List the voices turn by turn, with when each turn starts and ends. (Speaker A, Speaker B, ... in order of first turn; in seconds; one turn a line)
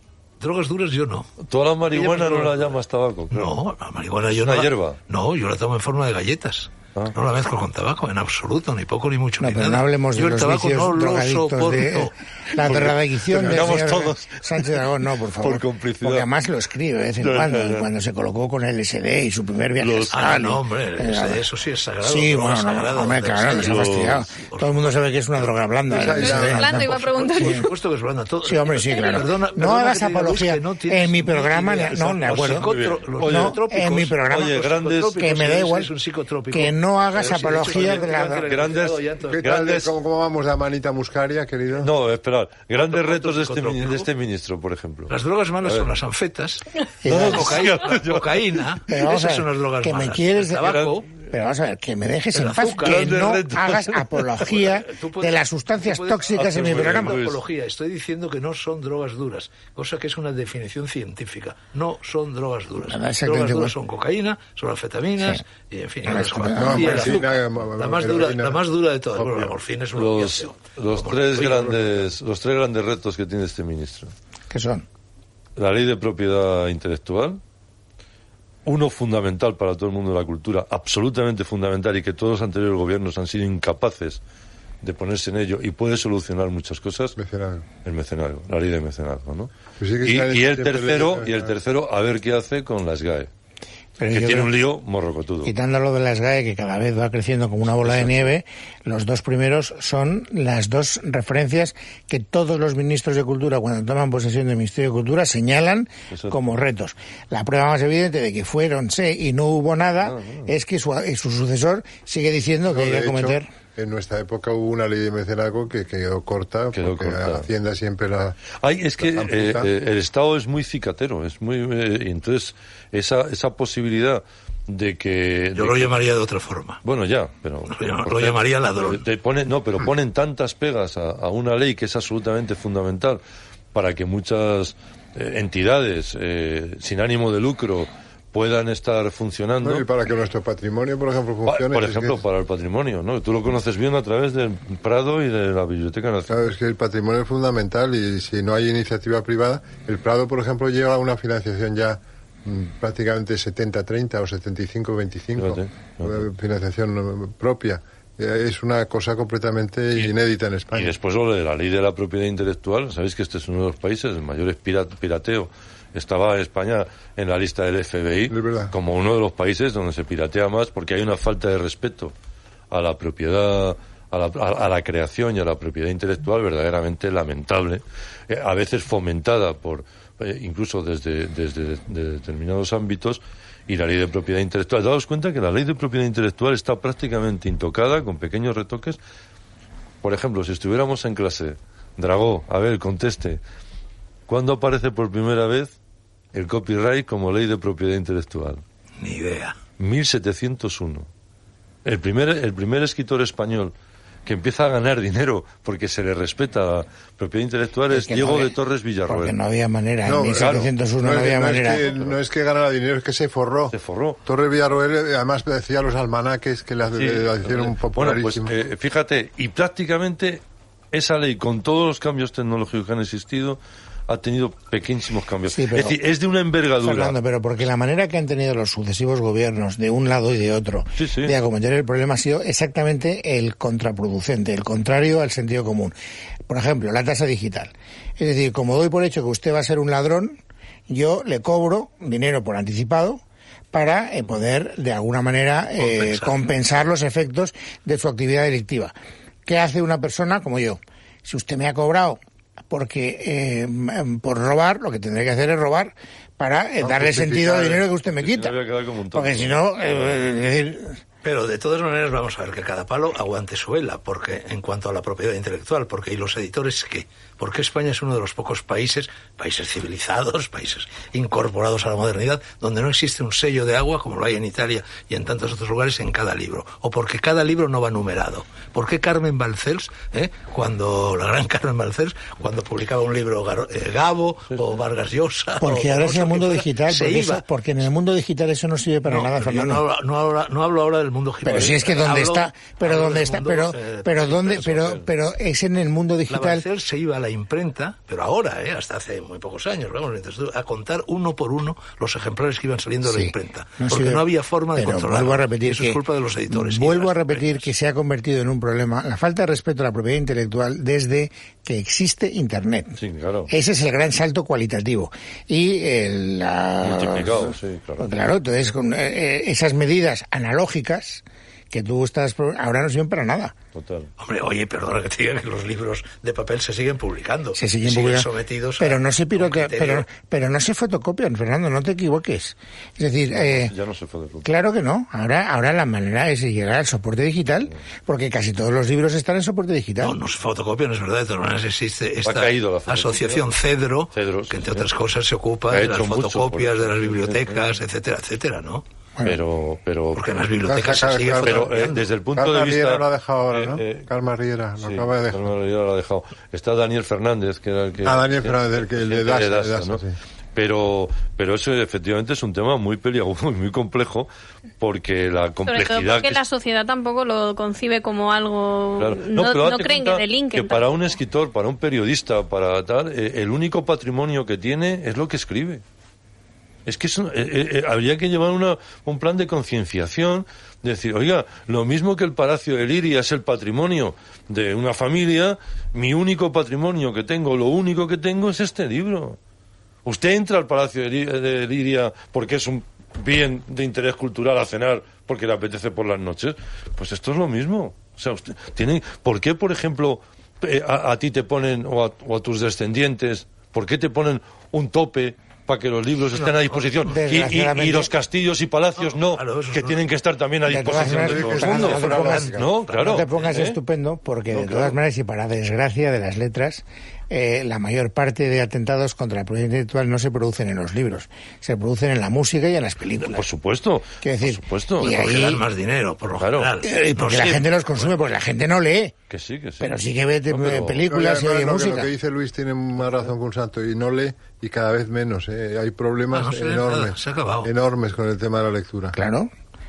Speaker A: 0.4-1.3
Speaker B: 1.4-3.5
Speaker A: 1.9-2.8
Speaker A: 3.3-12.1
Speaker B: 4.3-5.0
Speaker C: 9.4-21.4
Speaker B: 12.6-14.7
Speaker B: 15.4-16.3
Speaker B: 17.2-17.9
Speaker B: 19.8-20.2
Speaker A: 20.1-24.9
Speaker C: 22.0-27.7
Speaker B: 23.5-24.2
Speaker D: 25.9-27.1
Speaker E: 25.9-27.7
Speaker A: 26.3-39.6
Speaker C: 28.4-32.7
Speaker B: 32.3-33.6
Speaker C: 33.2-35.9
Speaker B: 34.2-35.2
Speaker C: 36.5-38.4
Speaker B: 37.4-39.9
Speaker D: 39.3-41.9
Speaker B: 41.8-45.9
Speaker A: 42.8-44.1
Speaker A: 45.1-51.1
Speaker C: 47.0-47.7
Speaker B: 47.1-48.6
Speaker C: 48.9-57.2
Speaker B: 50.6-50.9
Speaker A: 52.3-53.3
Speaker B: 52.8-54.3
Speaker A: 54.4-71.7
Speaker B: 56.4-57.4
Speaker C: 62.9-63.8
Speaker C: 66.0-67.2
Speaker D: 66.5-68.6
Speaker D: 69.2-69.5
Speaker B: 70.0-74.1
Speaker C: 74.5-74.8
Speaker B: 75.6-77.4
Speaker B: 78.7-84.2
Speaker B: 84.8-87.2
Speaker D: 87.2-87.7
Speaker B: 87.8-89.5
Speaker D: 89.8-91.5
Speaker B: 90.0-93.3
Speaker C: 94.0-94.5
Speaker B: 94.1-95.5
Speaker C: 95.4-113.5
Speaker B: 97.8-98.3
Speaker B: 106.1-106.3
Speaker B: 110.0-110.5
Speaker D: 112.7-118.4
Speaker B: 116.7-117.5
Speaker B: 118.6-126.0
Speaker D: 119.0-119.7
Speaker A: 125.5-126.8
Speaker B: 126.8-133.2
Speaker A: 127.7-129.0
Speaker B: 133.7-139.8
Speaker D: 139.6-142.2
Speaker B: 141.4-146.3
Speaker D: 146.3-160.9
Speaker B: 155.4-156.2
Speaker B: 160.7-172.1
Speaker D: 168.3-168.7
Speaker B: 172.7-189.0
Speaker B: 190.0-193.4
Speaker B: 194.3-195.7
Speaker B: 196.3-198.6
Speaker A: 199.0-199.6
Speaker B: 199.8-201.1
Speaker B: 201.8-203.7
Speaker B: 204.2-209.3
Speaker C: 207.9-208.6
Speaker C: 209.1-211.8
Speaker D: 210.1-213.7
Speaker B: 210.3-210.7
Speaker B: 211.8-212.2
Speaker B: 213.7-214.2
Speaker D: 214.2-218.5
Speaker B: 216.9-227.2
Speaker C: 225.5-226.0
Speaker C: 226.8-235.9
Speaker B: 231.0-231.3
Speaker C: 236.5-243.2
Speaker C: 243.7-248.9
Speaker A: 245.8-246.4
Speaker C: 249.4-258.6
Speaker D: 256.8-257.8
Speaker B: 258.2-259.8
Speaker C: 259.1-261.0
Speaker A: 261.2-287.4
Speaker C: 285.6-289.8
Speaker A: 289.1-295.0
Speaker C: 291.4-296.6
Speaker A: 296.3-307.7
Speaker C: 303.1-323.6
Speaker B: 313.0-313.5
Speaker B: 316.8-318.2
Speaker B: 323.7-324.1
Speaker A: 324.2-330.1
Speaker C: 327.6-333.7
Speaker B: 333.3-334.5
Speaker C: 334.4-340.2
Speaker A: 340.0-348.8
Speaker B: 342.2-343.4
Speaker B: 344.1-344.9
Speaker B: 345.7-347.6
Speaker B: 349.2-350.2
Speaker A: 350.1-352.1
Speaker D: 350.6-351.7
Speaker B: 351.4-354.1
Speaker D: 352.3-355.5
Speaker B: 354.8-360.0
Speaker D: 358.0-360.2
Speaker B: 360.6-364.3
Speaker B: 364.8-366.4
Speaker E: 365.6-370.9
Speaker B: 369.0-375.8
Speaker B: 376.9-389.4
Speaker B: 390.1-413.8
Speaker A: 406.3-407.1
Speaker C: 407.1-408.1
Speaker A: 409.0-410.0
Speaker C: 410.7-423.4
Speaker D: 411.0-412.7
Speaker A: 411.1-413.5
Speaker B: 414.5-414.9
Speaker B: 423.2-425.2
Speaker C: 424.2-425.6
Speaker A: 425.0-428.1
Speaker B: 426.4-426.7
Speaker C: 426.8-429.1
Speaker B: 429.3-429.9
Speaker C: 429.8-432.1
Speaker B: 430.5-431.1
Speaker D: 431.1-439.1
Speaker A: 436.3-437.7
Speaker C: 439.1-439.5